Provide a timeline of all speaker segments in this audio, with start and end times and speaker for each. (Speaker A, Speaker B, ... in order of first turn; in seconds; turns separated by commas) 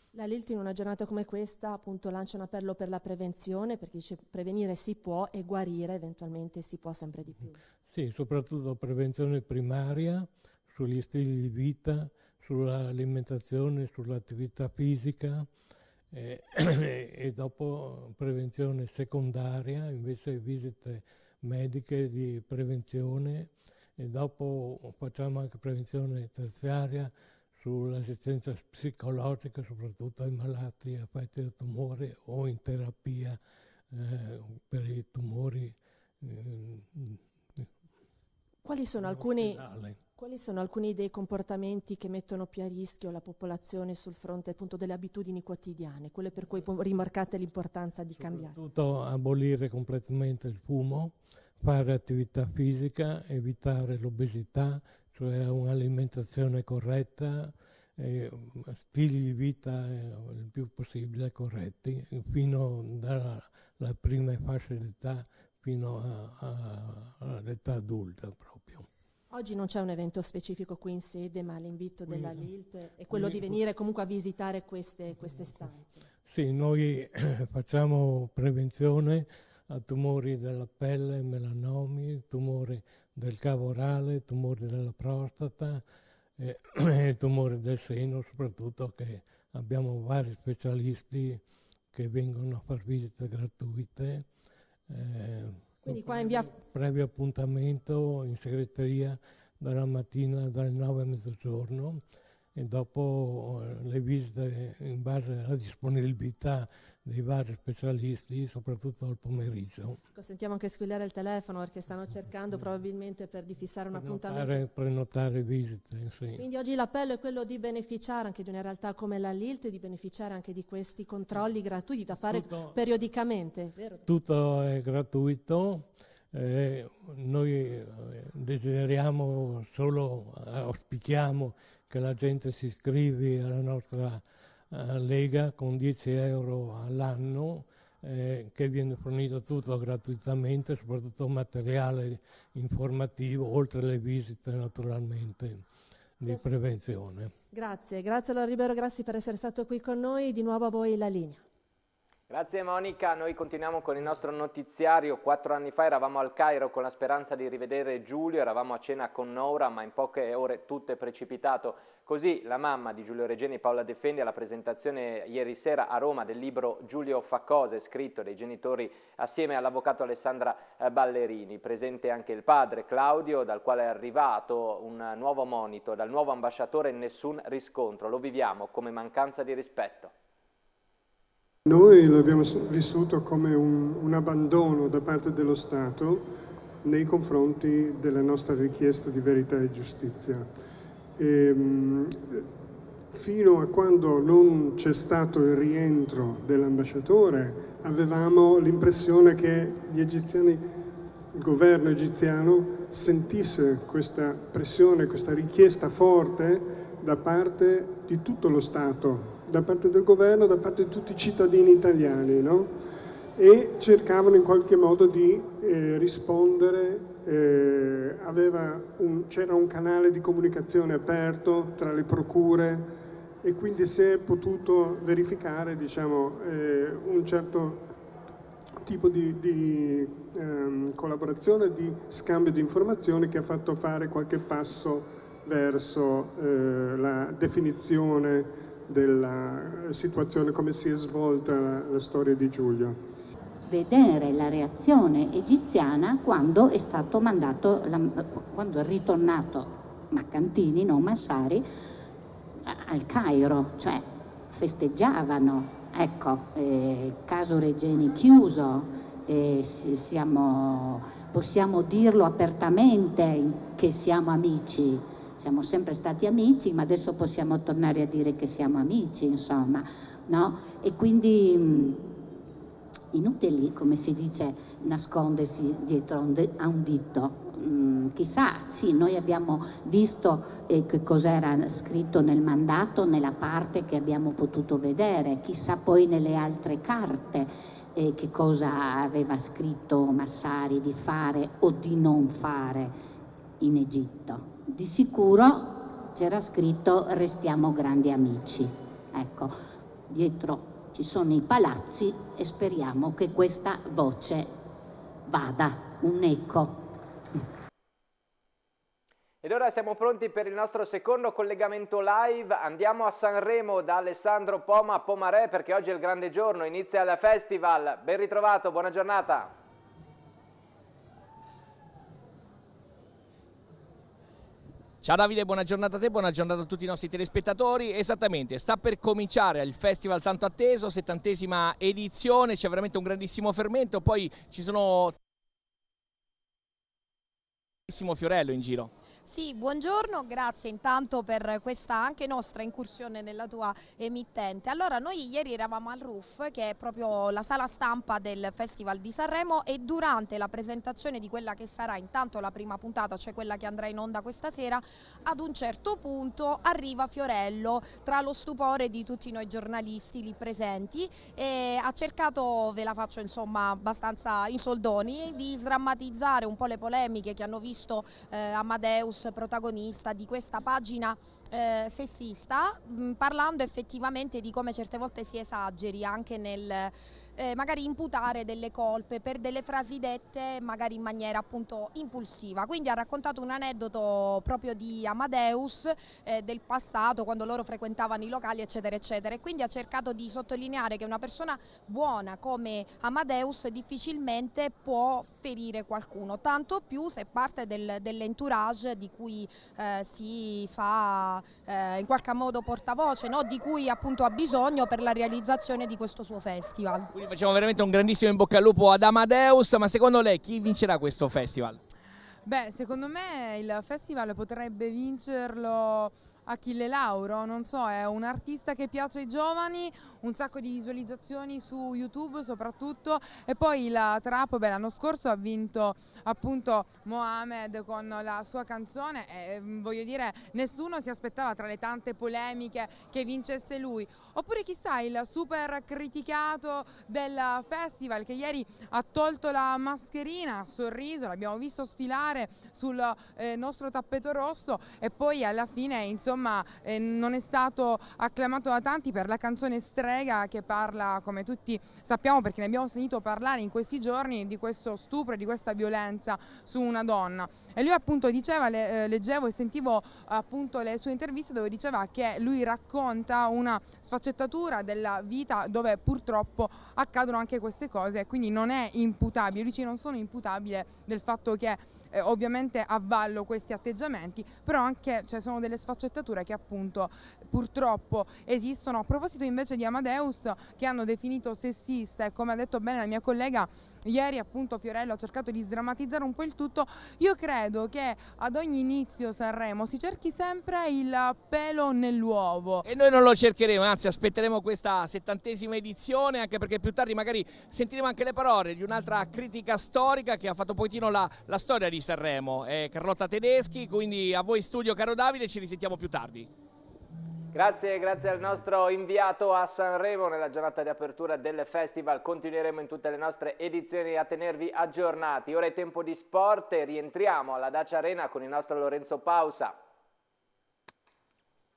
Speaker A: 0.1-7.6, Speaker B: 7.9-15.5, Speaker B: 16.1-33.4, Speaker B: 33.9-37.6, Speaker A: 38.6-48.6, Speaker B: 39.0-40.0, Speaker B: 48.1-68.9, Speaker A: 69.3-76.0, Speaker B: 72.1-72.5, Speaker B: 73.1-73.6, Speaker B: 76.3-85.8, Speaker B: 86.4-91.4, Speaker B: 91.9-94.3, Speaker B: 94.9-102.0, Speaker A: 95.8-96.5, Speaker B: 102.5-110.0, Speaker A: 110.1-114.7, Speaker B: 113.9-116.5, Speaker A: 116.3-124.0, Speaker B: 122.3-122.8, Speaker B: 124.0-145.7, Speaker B: 146.2-147.3, Speaker A: 147.5-151.4, Speaker C: 152.3-180.1, Speaker D: 181.7-186.3, Speaker D: 186.8-190.5, Speaker D: 191.2-192.4, Speaker D: 193.1-200.7, Speaker D: 201.3-212.8, Speaker D: 213.4-227.9, Speaker D: 228.8-243.0, Speaker E: 243.7-251.7, Speaker E: 252.7-272.0, Speaker E: 273.1-292.9, Speaker E: 293.6-299.5, Speaker E: 300.1-304.5, Speaker E: 305.3-306.8, Speaker C: 309.4-319.5, Speaker F: 325.0-335.1, Speaker F: 337.9-338.9, Speaker G: 339.2-407.1, Speaker F: 407.1-411.8, Speaker H: 412.4-492.8, Speaker F: 492.8-506.5, Speaker C: 507.5-519.8